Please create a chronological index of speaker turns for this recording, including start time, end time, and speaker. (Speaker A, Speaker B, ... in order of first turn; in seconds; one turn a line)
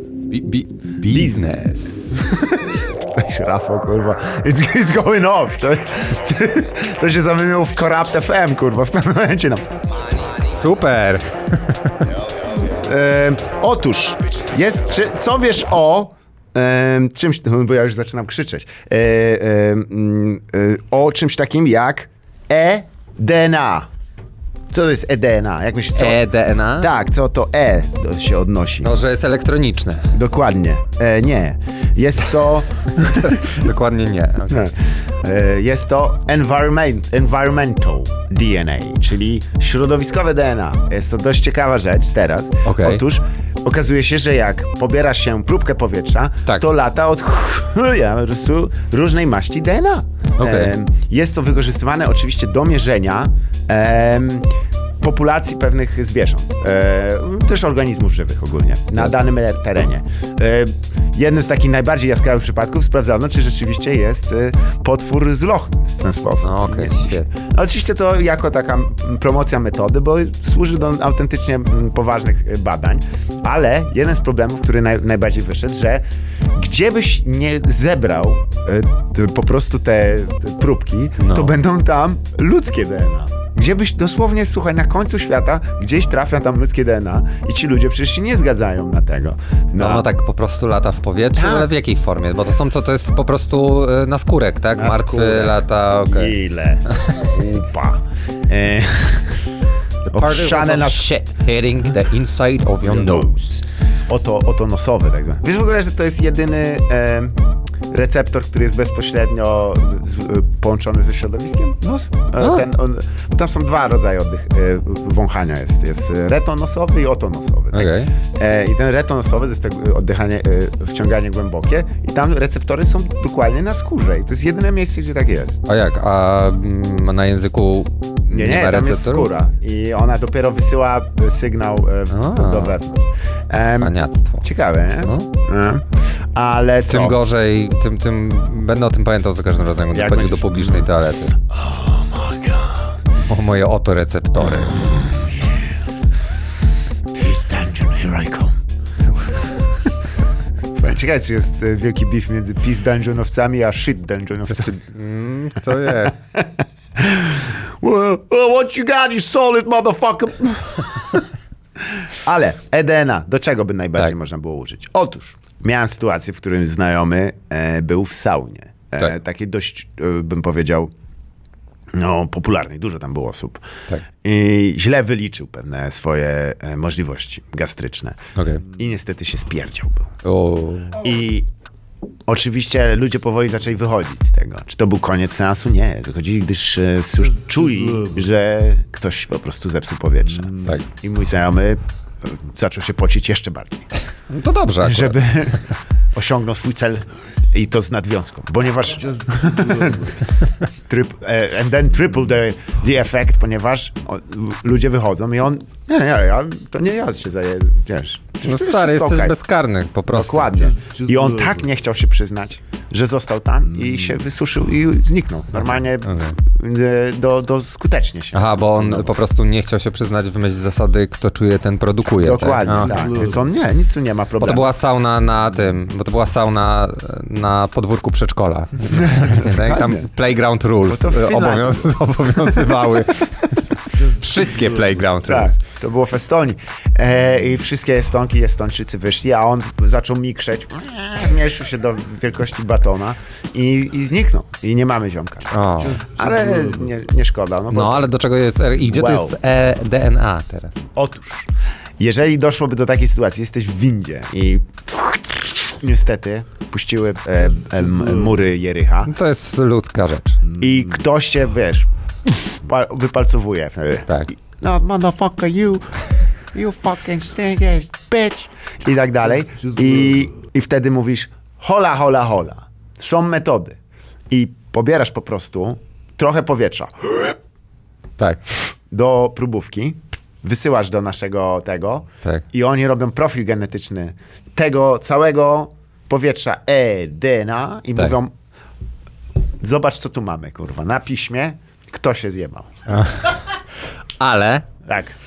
Speaker A: 0.3-2.2
Speaker B: 1.0-9.7
Speaker A: 10.4-12.0
Speaker B: 12.7-23.9
Speaker B: 24.7-26.2
Speaker A: 26.0-26.9
Speaker B: 26.8-29.0
Speaker A: 28.8-30.1
Speaker B: 30.1-33.4
Speaker A: 33.0-34.6
Speaker B: 34.5-54.5
Speaker A: 42.6-43.0
Speaker A: 50.4-50.7
Speaker B: 55.0-90.1
Speaker A: 66.4-67.3
Speaker A: 81.2-81.6
Speaker A: 89.8-96.4
Speaker B: 91.3-91.7
Speaker B: 94.8-99.4
Speaker A: 100.1-103.6
Speaker B: 100.1-101.4
Speaker B: 102.8-103.4
Speaker B: 104.1-107.4
Speaker B: 107.9-125.6
Speaker A: 112.4-112.7
Speaker A: 117.7-118.1
Speaker A: 125.7-129.3
Speaker B: 128.3-137.2
Speaker A: 132.1-132.8
Speaker A: 133.8-134.5
Speaker A: 135.0-135.3
Speaker A: 136.9-141.4
Speaker B: 139.9-142.9
Speaker A: 143.3-144.9
Speaker B: 147.1-148.6
Speaker B: 150.8-154.8
Speaker A: 154.5-156.1
Speaker B: 155.9-161.2
Speaker B: 162.1-170.9
Speaker B: 171.9-173.6
Speaker B: 174.2-180.1
Speaker A: 178.4-178.6
Speaker A: 180.2-181.0
Speaker B: 181.0-181.5
Speaker B: 182.3-193.9
Speaker A: 194.3-195.2
Speaker B: 194.8-200.2
Speaker B: 200.9-209.4
Speaker A: 208.4-210.7
Speaker B: 210.1-219.1
Speaker A: 216.0-216.4
Speaker A: 218.3-223.0
Speaker B: 222.2-224.7
Speaker A: 224.4-235.6
Speaker B: 229.0-230.0
Speaker B: 230.8-231.9
Speaker B: 235.2-248.1
Speaker A: 245.5-246.1
Speaker A: 247.7-250.8
Speaker B: 248.8-249.4
Speaker B: 251.0-259.1
Speaker A: 259.1-260.4
Speaker B: 260.6-261.9
Speaker B: 262.5-266.0
Speaker B: 266.5-273.8
Speaker B: 274.3-277.4
Speaker B: 278.9-288.3
Speaker B: 289.6-292.7
Speaker A: 292.9-293.4
Speaker A: 294.2-294.7
Speaker B: 294.9-295.1